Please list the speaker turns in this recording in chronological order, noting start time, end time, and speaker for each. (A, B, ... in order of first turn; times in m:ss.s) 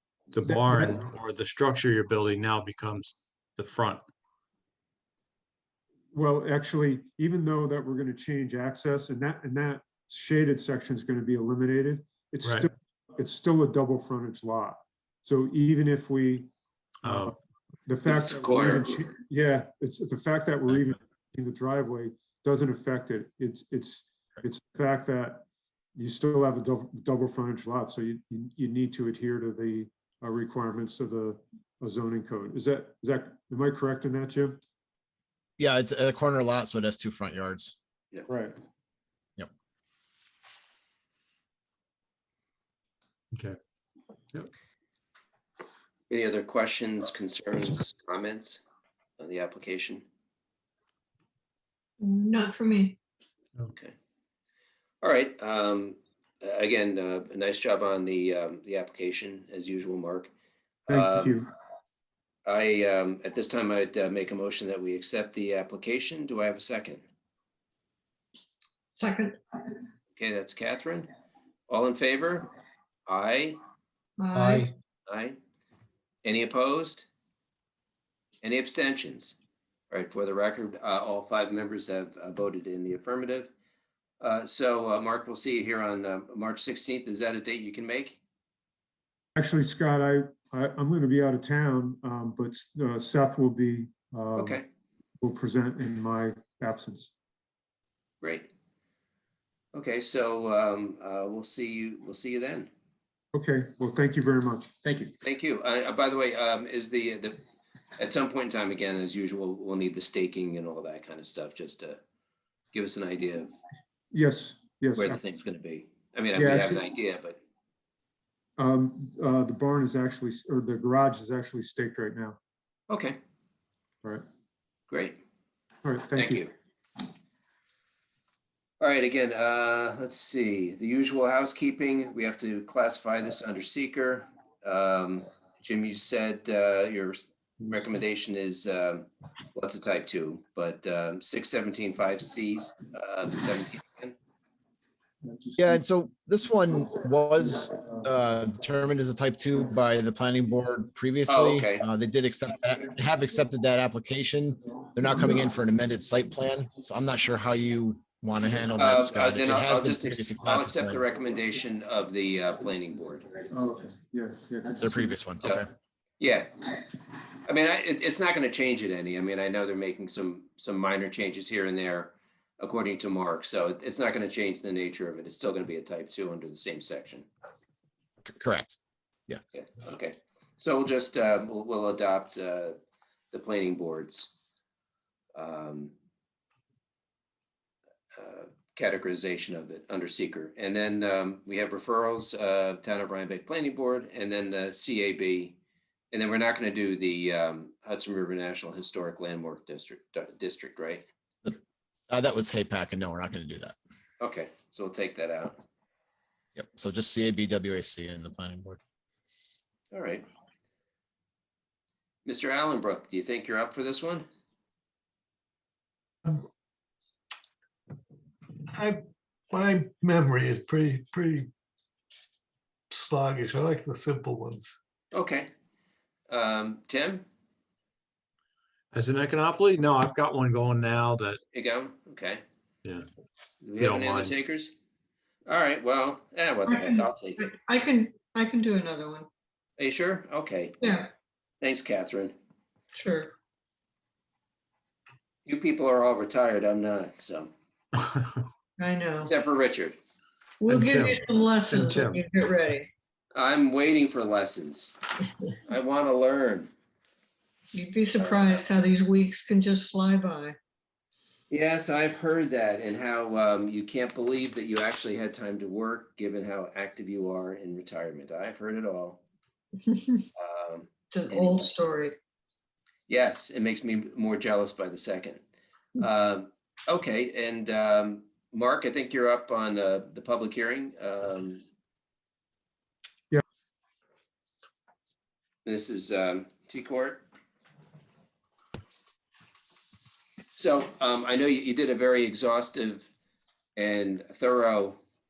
0:00.3-0:04.0 A
0:00.4-0:01.1 B
0:06.1-0:16.5 B
0:17.0-0:17.3 A
0:17.0-0:34.6 B
0:18.0-0:19.0 C
0:35.6-0:37.8 D
0:38.3-0:38.5 B
0:43.3-0:43.6 A
0:46.1-0:48.6 C
0:49.2-0:50.0 C
0:52.0-0:53.0 E
0:55.0-1:00.3 C
1:00.9-1:01.5 B
1:00.9-1:01.4 C
1:02.4-1:07.0 C
1:09.0-1:09.4 E
1:10.2-1:11.1 C
1:11.7-1:12.5 C
1:13.1-1:13.6 C
1:14.2-1:14.7 E
1:14.3-1:14.7 A
1:15.1-1:15.4 C
1:16.2-1:17.0 C
1:18.4-1:19.4 C
1:19.9-1:23.5 C
1:24.2-1:28.2 C
1:29.3-1:34.6 B
1:34.4-1:34.6 C
1:35.2-1:37.1 B
1:38.2-1:38.5 C
1:39.7-1:42.7 C
1:43.3-1:45.1 B
1:45.2-1:47.4 C
1:48.0-1:52.0 C
1:52.7-1:53.5 C
1:54.1-1:55.2 B
1:55.0-1:57.4 C
1:56.3-1:56.8 B
1:58.6-2:02.4 B
2:02.9-2:03.2 C
2:04.9-2:05.2 C
2:05.8-2:06.4 B
2:06.1-2:06.5 C
2:08.8-2:24.2 C
2:25.2-2:25.6 B
2:25.6-2:41.0 D
2:31.3-2:31.8 C
2:38.8-2:43.3 C
2:43.5-2:45.1 B
2:44.8-2:45.6 D
2:46.2-2:46.7 C
2:47.4-2:57.2 C
2:58.2-2:59.4 D
2:59.5-3:02.8 C
3:03.3-3:04.3 C
3:05.4-3:05.9 C
3:08.2-3:15.6 C
3:16.1-3:21.0 C
3:22.1-3:23.8 D
3:24.2-3:25.6 C
3:26.6-3:28.8 D
3:29.9-3:30.2 C
3:32.2-3:34.2 C
3:38.7-3:41.5 F
3:42.9-3:44.7 F
3:45.1-3:45.5 C
3:46.3-3:47.2 C
3:48.9-3:51.4 A
3:51.5-3:52.4 C
3:53.6-3:54.7 C
3:53.8-3:54.4 A
3:55.4-3:57.4 C
3:56.7-3:59.3 E
3:59.8-4:01.0 C
4:00.8-4:01.1 E
4:01.6-4:02.3 C
4:02.9-4:03.3 E
4:05.4-4:07.5 C
4:08.1-4:08.4 A
4:08.8-4:09.3 E
4:09.2-4:10.0 C
4:10.6-4:12.9 E
4:10.7-4:12.2 A
4:13.3-4:15.0 C
4:15.6-4:16.7 C
4:17.7-4:20.6 E
4:18.2-4:18.6 C
4:21.5-4:29.2 C
4:29.8-4:30.2 E
4:30.4-4:31.7 C
4:31.1-4:32.2 E
4:33.1-4:35.4 C
4:36.0-4:41.6 C
4:45.6-4:47.2 C
4:50.6-4:53.1 C
4:53.8-4:55.0 C